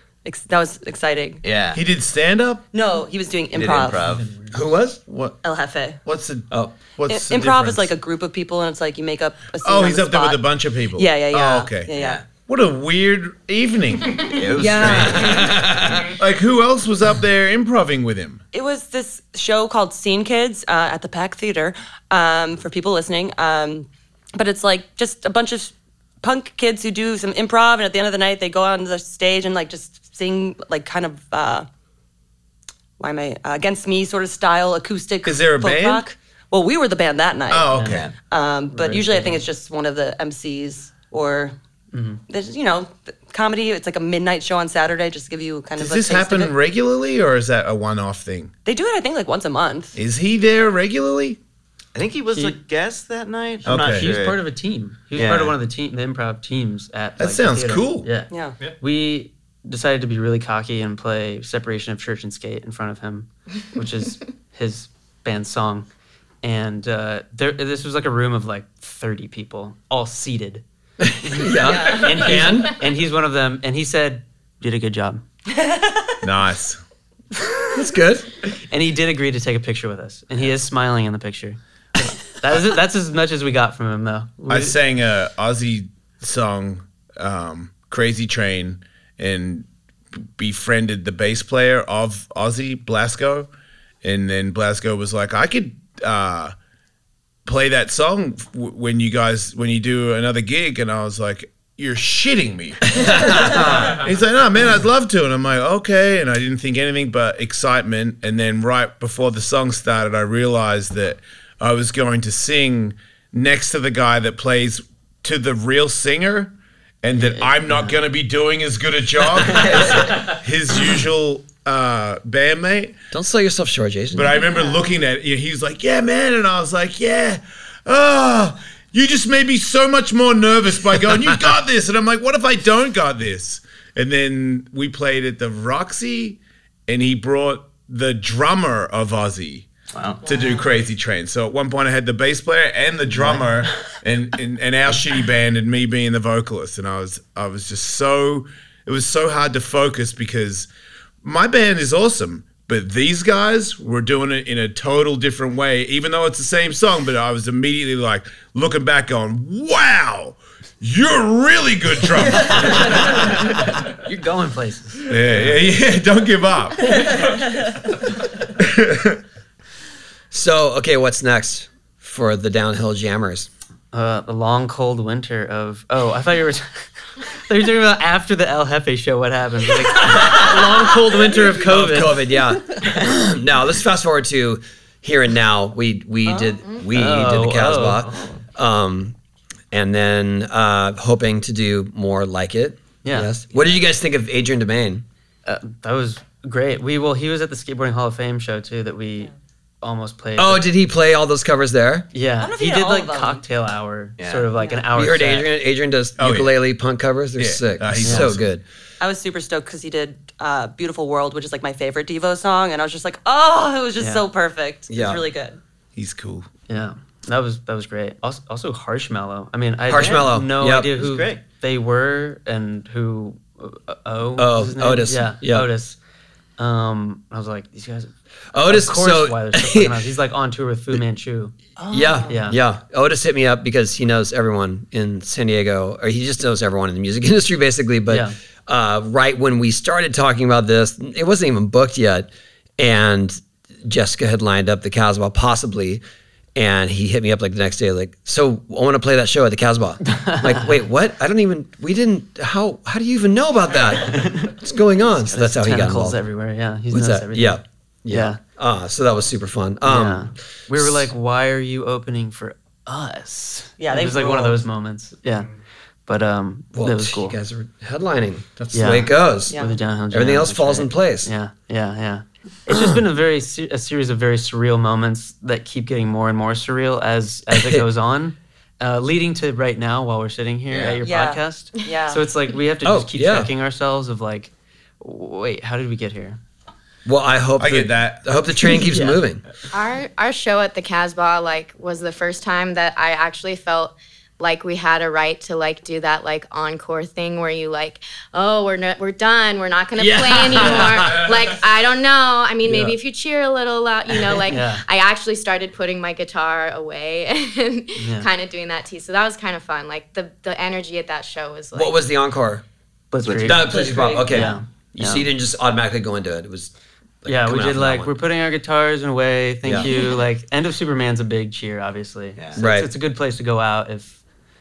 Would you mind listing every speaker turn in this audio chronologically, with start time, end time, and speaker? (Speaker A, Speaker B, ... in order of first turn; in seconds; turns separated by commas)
Speaker A: 0.2-1.4, Speaker B: 1.4-1.8, Speaker C: 1.7-2.6, Speaker A: 2.7-4.1, Speaker B: 3.5-4.3, Speaker D: 4.5-5.0, Speaker C: 5.1-5.4, Speaker A: 5.4-6.0, Speaker C: 6.0-7.9, Speaker A: 7.1-10.4, Speaker C: 9.6-15.5, Speaker A: 11.0-12.2, Speaker B: 11.9-12.3, Speaker B: 14.2-15.4, Speaker A: 14.5-15.5, Speaker D: 15.0-16.1, Speaker C: 16.0-18.4, Speaker A: 18.5-31.7, Speaker A: 33.0-41.5, Speaker C: 35.2-36.0, Speaker C: 37.5-38.1, Speaker E: 37.7-38.0, Speaker B: 37.8-38.1, Speaker E: 38.7-39.4, Speaker E: 41.9-42.2, Speaker A: 42.3-46.5, Speaker C: 45.8-48.5, Speaker A: 48.7-50.0, Speaker C: 50.0-51.4, Speaker B: 52.0-54.4, Speaker E: 52.3-52.6, Speaker C: 53.6-54.2, Speaker E: 53.7-65.9, Speaker B: 55.1-55.6, Speaker C: 57.2-58.1, Speaker A: 58.3-58.6, Speaker E: 66.4-70.6, Speaker D: 71.0-72.8, Speaker E: 71.2-75.2, Speaker A: 71.6-72.2, Speaker A: 75.5-76.1, Speaker C: 76.2-76.8, Speaker D: 77.7-78.3, Speaker E: 78.7-84.8, Speaker C: 84.5-89.7, Speaker C: 90.4-93.5, Speaker C: 94.0-96.5, Speaker C: 97.5-123.0, Speaker D: 103.0-103.9, Speaker E: 117.1-118.0, Speaker D: 123.1-124.6, Speaker C: 124.1-139.7, Speaker B: 139.9-140.2, Speaker C: 140.2-150.7, Speaker F: 140.3-140.6, Speaker C: 151.2-163.7, Speaker E: 162.5-165.6, Speaker C: 165.1-167.4, Speaker C: 168.6-169.2, Speaker D: 170.3-173.5, Speaker E: 173.9-182.3, Speaker D: 181.1-189.2, Speaker A: 186.3-186.6, Speaker E: 186.9-188.3, Speaker D: 189.7-195.1, Speaker E: 193.0-193.3, Speaker E: 195.4-199.3, Speaker E: 199.8-200.7, Speaker D: 200.4-202.1, Speaker E: 202.1-205.5, Speaker A: 202.4-203.4, Speaker B: 204.2-204.5, Speaker D: 204.9-208.6, Speaker C: 206.2-206.6, Speaker C: 207.4-208.4, Speaker E: 208.0-208.3, Speaker A: 209.0-215.6, Speaker D: 214.9-215.2, Speaker C: 215.9-216.5, Speaker E: 216.7-226.0, Speaker D: 219.9-220.9, Speaker B: 219.9-220.4, Speaker B: 220.9-221.4, Speaker D: 224.4-225.7, Speaker E: 226.6-228.1, Speaker D: 228.5-230.0, Speaker E: 228.6-231.6, Speaker A: 231.8-232.4, Speaker D: 231.9-246.0, Speaker E: 232.3-232.6, Speaker E: 238.1-238.3, Speaker D: 246.6-256.2, Speaker E: 250.1-250.8, Speaker E: 254.1-254.5, Speaker E: 255.3-258.4, Speaker D: 256.9-261.1, Speaker E: 259.8-265.5, Speaker A: 263.8-264.6, Speaker E: 266.1-267.4, Speaker D: 266.8-269.6, Speaker E: 268.7-286.4, Speaker A: 269.5-269.8, Speaker D: 270.1-271.3, Speaker D: 277.5-277.9, Speaker B: 280.7-281.0, Speaker A: 281.0-282.2, Speaker D: 282.8-283.5, Speaker D: 287.1-289.4, Speaker C: 287.6-288.2, Speaker E: 288.9-289.2, Speaker F: 289.7-312.1, Speaker D: 300.0-301.3, Speaker E: 300.3-301.2, Speaker E: 302.6-302.9, Speaker E: 304.4-304.8, Speaker E: 308.0-308.3, Speaker D: 311.7-312.6, Speaker E: 313.1-313.7, Speaker B: 313.2-313.7, Speaker D: 313.4-316.7, Speaker A: 313.6-314.5, Speaker E: 314.2-315.3, Speaker D: 317.2-318.2, Speaker E: 317.3-324.2, Speaker D: 319.6-319.9, Speaker D: 322.6-322.9